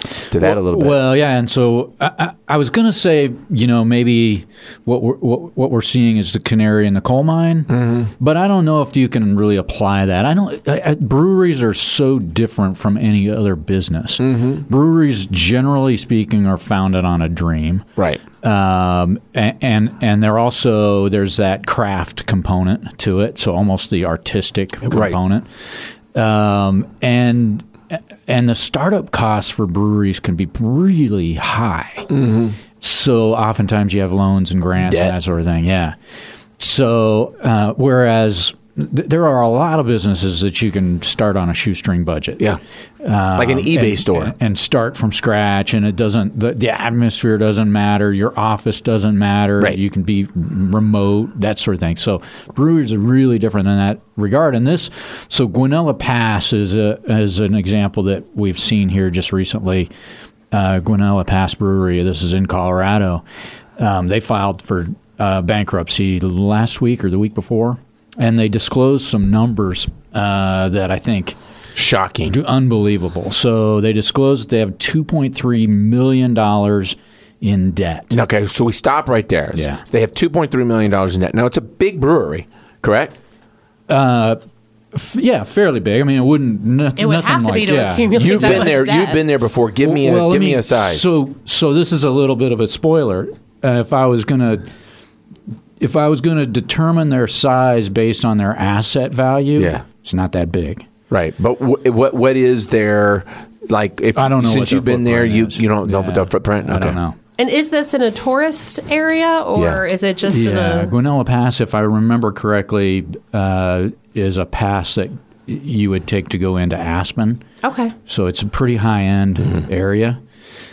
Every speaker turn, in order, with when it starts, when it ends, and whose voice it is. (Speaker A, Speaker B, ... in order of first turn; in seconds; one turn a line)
Speaker A: 0.3-1.0
Speaker B: 0.4-17.9
Speaker A: 7.7-8.1
Speaker A: 14.2-14.7
Speaker A: 18.0-18.2
Speaker B: 18.4-25.5
Speaker A: 24.9-25.2
Speaker B: 26.1-32.1
Speaker A: 32.1-32.6
Speaker B: 32.8-36.0
Speaker A: 34.8-35.1
Speaker B: 36.6-42.5
Speaker B: 43.0-59.9
Speaker A: 43.4-44.3
Speaker B: 60.5-63.2
Speaker B: 63.8-71.4
Speaker A: 71.8-72.4
Speaker B: 72.3-78.2
Speaker A: 78.1-83.2
Speaker B: 79.5-79.8
Speaker B: 83.9-84.4
Speaker B: 84.9-88.7
Speaker C: 87.0-89.2
Speaker A: 88.1-91.1
Speaker B: 89.8-94.7
Speaker B: 95.8-100.9
Speaker A: 99.6-99.8
Speaker A: 101.1-107.0
Speaker B: 104.2-107.2
Speaker C: 107.4-110.9
Speaker A: 109.6-109.8
Speaker B: 110.3-117.4
Speaker C: 117.6-118.0
Speaker B: 118.1-120.2